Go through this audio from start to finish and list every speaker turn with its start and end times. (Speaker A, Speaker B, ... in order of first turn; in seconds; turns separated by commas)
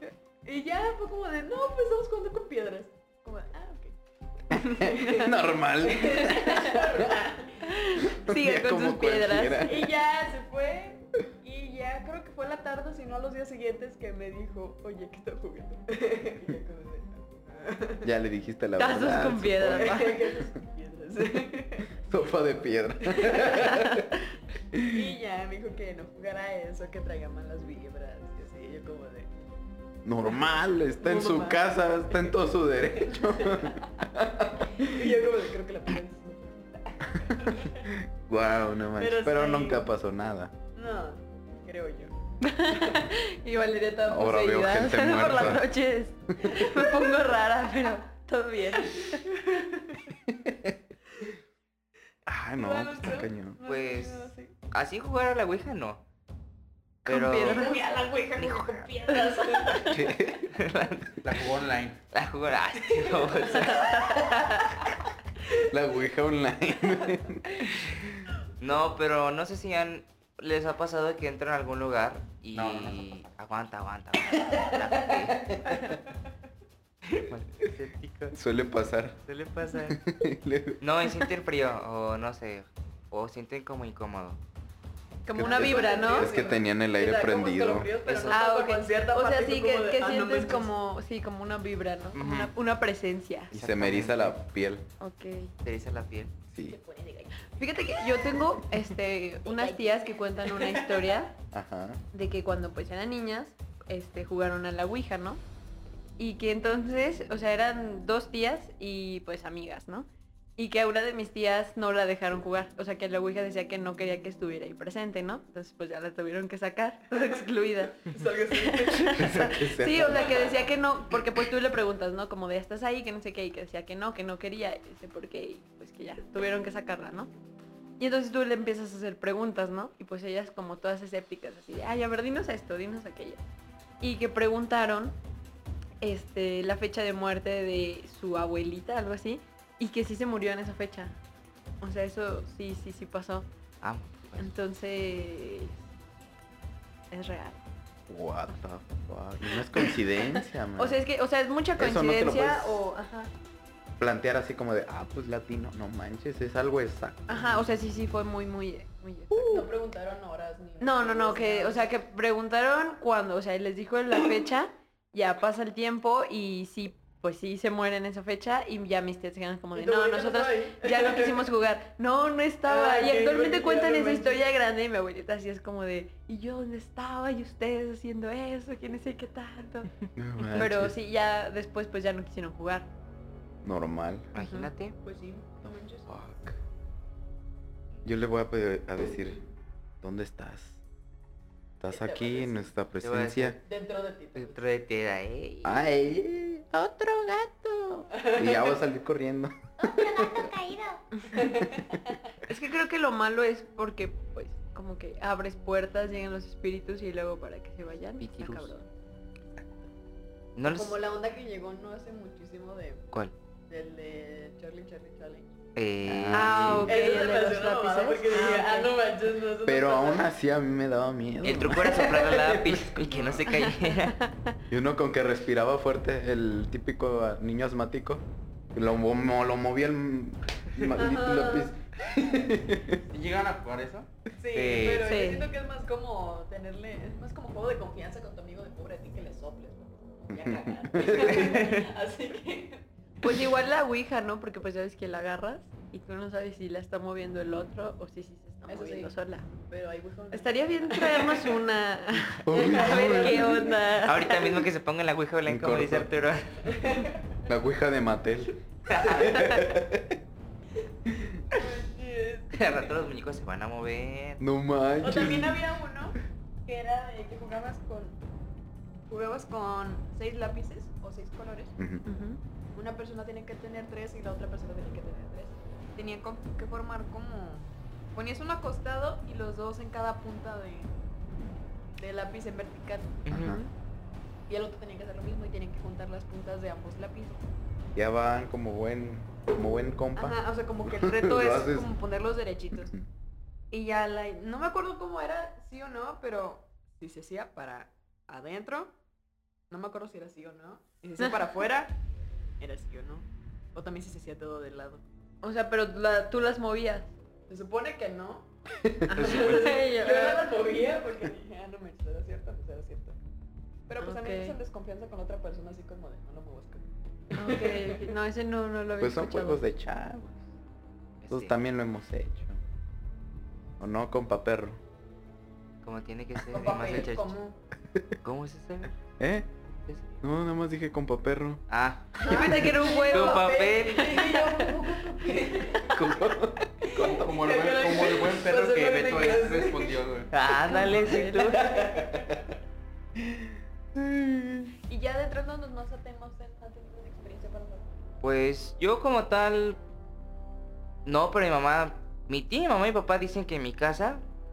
Speaker A: 0.4-4.0, Speaker B: 4.5-7.1, Speaker A: 4.5-7.7, Speaker C: 6.2-6.9, Speaker C: 7.6-9.8, Speaker B: 8.0-9.9, Speaker A: 9.6-18.1, Speaker B: 18.0-20.4, Speaker C: 18.8-20.2, Speaker A: 19.8-21.9, Speaker B: 22.0-24.1, Speaker A: 23.1-23.8, Speaker C: 23.6-24.1, Speaker B: 24.7-25.1, Speaker A: 24.8-29.5, Speaker B: 30.1-35.1, Speaker A: 31.0-33.9, Speaker A: 34.8-37.9, Speaker B: 37.8-40.5, Speaker A: 39.0-39.9, Speaker A: 40.7-42.1, Speaker C: 42.4-49.3, Speaker A: 42.7-43.0, Speaker B: 44.1-45.7, Speaker A: 46.5-47.2, Speaker A: 48.8-50.0, Speaker B: 50.4-50.7, Speaker B: 52.2-53.6, Speaker A: 52.6-54.5, Speaker D: 53.7-56.0, Speaker D: 57.1-57.8, Speaker C: 57.1-57.8, Speaker A: 57.4-60.0, Speaker D: 58.4-59.2, Speaker C: 59.1-59.8, Speaker B: 59.8-60.5, Speaker D: 60.5-61.3, Speaker E: 61.2-62.0, Speaker D: 62.1-64.0, Speaker A: 62.9-64.2, Speaker C: 63.5-64.7, Speaker B: 65.7-68.3, Speaker D: 68.6-75.8, Speaker E: 72.5-73.1, Speaker D: 77.1-78.3, Speaker B: 78.3-79.2, Speaker D: 79.2-80.0, Speaker B: 79.8-80.8, Speaker D: 80.8-84.4, Speaker C: 85.2-86.3, Speaker B: 85.3-87.9, Speaker A: 85.4-90.7, Speaker D: 88.0-88.4, Speaker C: 88.3-93.5, Speaker D: 92.2-92.5, Speaker B: 93.5-94.9, Speaker D: 93.5-94.3, Speaker C: 95.0-95.5, Speaker D: 95.6-96.3, Speaker A: 96.7-98.0, Speaker C: 97.6-101.3, Speaker A: 99.4-101.2, Speaker B: 101.5-102.0, Speaker C: 102.1-105.4, Speaker C: 106.2-127.3, Speaker A: 118.1-119.3, Speaker B: 119.1-120.5, Speaker A: 120.2-120.5, Speaker C: 128.0-133.4, Speaker C: 134.0-135.2, Speaker C: 136.0-141.2, Speaker C: 141.8-143.5, Speaker D: 143.8-144.4, Speaker C: 144.4-145.8, Speaker C: 147.1-147.6, Speaker B: 148.1-151.0, Speaker C: 150.8-153.3, Speaker B: 151.8-152.8, Speaker B: 154.0-157.6, Speaker C: 157.3-159.7, Speaker A: 159.5-161.9, Speaker C: 160.8-182.9, Speaker A: 169.7-171.4, Speaker A: 172.7-174.4, Speaker B: 180.2-180.9, Speaker B: 183.6-184.3, Speaker D: 184.3-185.0, Speaker C: 184.3-184.7, Speaker A: 185.0-186.2, Speaker B: 186.1-186.6, Speaker B: 188.1-189.4, Speaker B: 190.0-190.8, Speaker B: 191.8-193.6, Speaker A: 191.9-192.7, Speaker D: 193.0-193.6, Speaker A: 193.6-194.7, Speaker D: 194.3-195.9, Speaker B: 195.6-196.7, Speaker D: 196.7-198.1, Speaker A: 198.2-198.7, Speaker B: 198.2-200.5, Speaker D: 199.9-201.0, Speaker A: 201.3-202.2, Speaker C: 202.4-208.9, Speaker D: 208.2-208.7, Speaker D: 210.6-211.0, Speaker A: 210.7-213.1, Speaker A: 213.7-215.6, Speaker D: 215.8-216.9, Speaker B: 216.1-216.9, Speaker C: 216.3-218.9, Speaker A: 216.8-220.3, Speaker B: 219.7-222.2, Speaker D: 221.4-224.2, Speaker A: 222.2-222.5, Speaker E: 223.1-223.4, Speaker C: 223.5-224.6, Speaker B: 224.7-233.0, Speaker A: 230.9-231.7, Speaker E: 233.1-234.1, Speaker A: 234.3-243.4, Speaker D: 234.5-235.2, Speaker C: 235.0-235.5, Speaker B: 240.3-241.6, Speaker D: 241.1-241.9, Speaker C: 243.2-249.4, Speaker A: 248.7-251.5, Speaker C: 250.3-254.6, Speaker B: 252.4-253.5, Speaker A: 252.6-253.7, Speaker D: 254.0-256.7, Speaker B: 255.5-256.1, Speaker A: 256.6-257.4, Speaker B: 257.5-260.2, Speaker D: 258.9-259.4, Speaker A: 258.9-259.4, Speaker A: 261.5-262.9, Speaker D: 262.5-264.4, Speaker B: 264.4-265.6, Speaker A: 265.0-268.2, Speaker A: 269.1-271.7, Speaker B: 271.8-272.1, Speaker C: 272.1-272.4, Speaker A: 272.7-281.0, Speaker A: 282.0-283.2, Speaker D: 283.3-283.6, Speaker B: 283.3-283.6, Speaker C: 283.4-283.7, Speaker A: 284.5-287.4, Speaker B: 287.9-291.9, Speaker A: 290.2-292.9, Speaker A: 293.7-298.9, Speaker A: 299.7-302.0, Speaker A: 302.6-305.0, Speaker C: 305.4-307.1, Speaker A: 307.5-308.5, Speaker C: 309.1-310.5, Speaker A: 309.2-313.2, Speaker D: 309.2-309.6, Speaker A: 313.9-318.1, Speaker C: 314.0-314.6, Speaker C: 317.3-319.6, Speaker B: 319.0-320.4, Speaker D: 321.2-321.5, Speaker B: 321.3-322.6, Speaker B: 323.8-324.8, Speaker D: 325.8-327.3, Speaker A: 326.5-327.6, Speaker D: 328.2-328.9, Speaker B: 329.2-329.5, Speaker D: 329.7-330.1, Speaker B: 330.2-331.6, Speaker D: 331.7-334.3, Speaker C: 332.2-334.7, Speaker A: 332.2-336.1, Speaker B: 332.3-332.7, Speaker B: 335.9-337.2, Speaker A: 336.8-340.0, Speaker E: 336.9-340.3, Speaker D: 340.3-342.1, Speaker C: 340.6-341.7, Speaker A: 340.7-342.4, Speaker B: 343.9-344.7, Speaker A: 344.9-348.0, Speaker D: 348.2-349.8, Speaker D: 351.1-354.2